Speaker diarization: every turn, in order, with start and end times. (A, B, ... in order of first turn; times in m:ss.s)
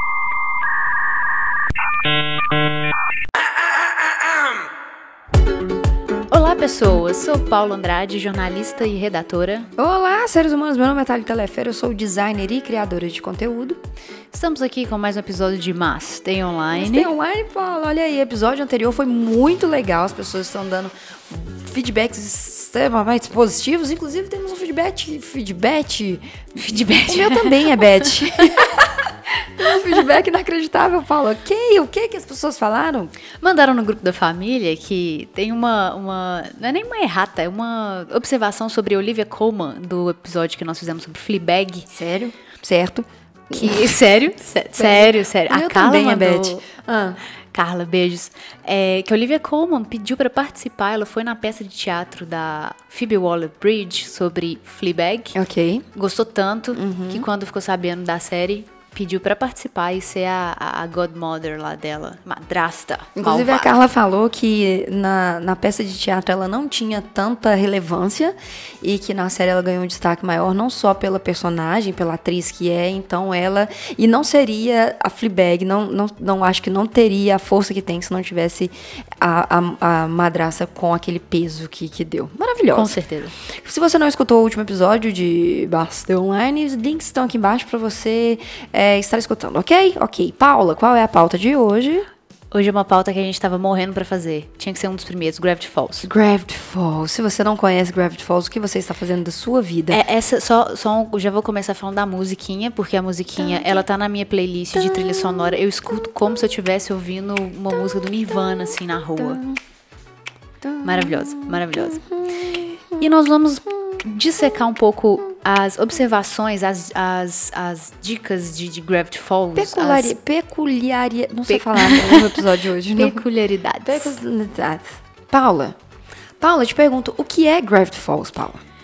0:06.3-0:09.7 A
0:09.8-0:13.8 B
0:14.3-0:17.1 A
0:16.7-0:26.3 B
0:26.5-0:28.0 A
0:27.1-0:33.1 B
0:33.4-0:41.9 A
0:41.9-0:44.0 B
0:43.5-0:46.6 A
0:44.8-0:47.2 B
0:47.5-0:55.4 A
0:55.3-0:55.8 B
0:55.9-1:03.7 A
0:56.7-0:57.3 B
1:03.2-1:23.0 B
1:22.7-1:23.3 A
1:23.6-1:32.0 B
1:32.5-1:36.1 A
1:36.0-1:40.0 B
1:39.9-1:49.4 A
1:43.4-1:43.8 B
1:44.7-1:46.4 B
1:47.8-1:49.6 B
1:50.6-1:53.1 B
1:50.8-1:52.0 A
1:53.0-2:00.1 A
1:59.6-2:03.2 B
2:01.5-2:02.4 A
2:02.9-2:04.1 A
2:03.8-2:05.7 B
2:06.4-2:08.6 B